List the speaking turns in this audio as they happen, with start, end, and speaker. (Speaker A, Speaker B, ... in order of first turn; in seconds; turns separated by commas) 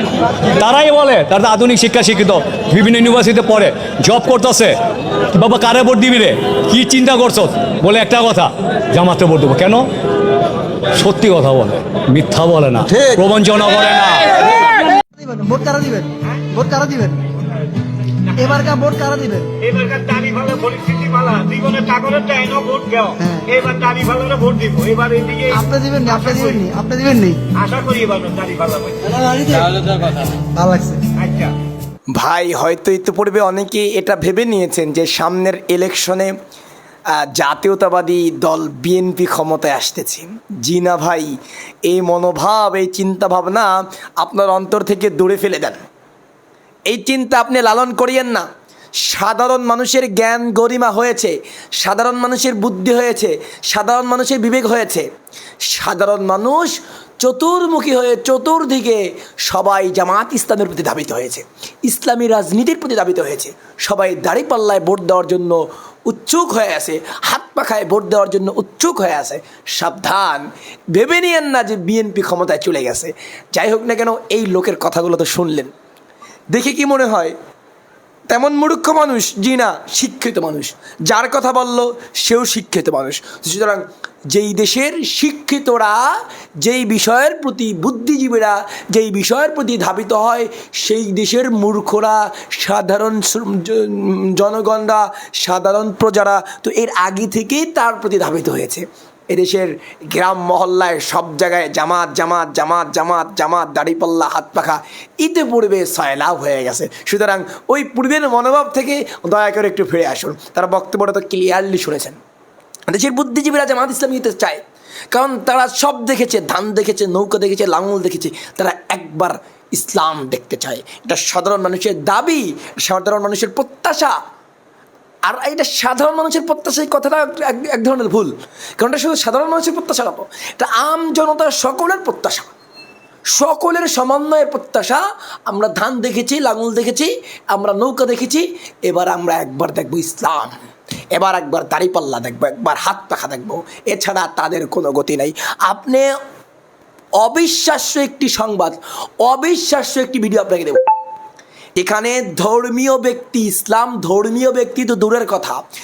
Speaker A: 0.5-4.8, Speaker A: 5.3-9.9, Speaker A: 10.9-14.6, Speaker B: 15.1-17.2, Speaker B: 18.4-19.5, Speaker C: 19.6-25.6, Speaker B: 23.2-23.5, Speaker B: 25.5-27.4, Speaker C: 26.1-26.4, Speaker C: 27.5-30.4, Speaker B: 30.5-31.1, Speaker C: 31.2-31.5, Speaker D: 32.1-36.3, Speaker D: 37.1-45.8, Speaker D: 46.9-48.5, Speaker D: 49.0-55.0, Speaker D: 55.7-75.7, Speaker D: 76.5-77.3, Speaker D: 78.3-112.2, Speaker D: 112.9-124.2, Speaker D: 125.2-132.5, Speaker D: 133.3-140.6, Speaker D: 141.1-146.1, Speaker D: 147.2-150.8, Speaker D: 151.8-155.6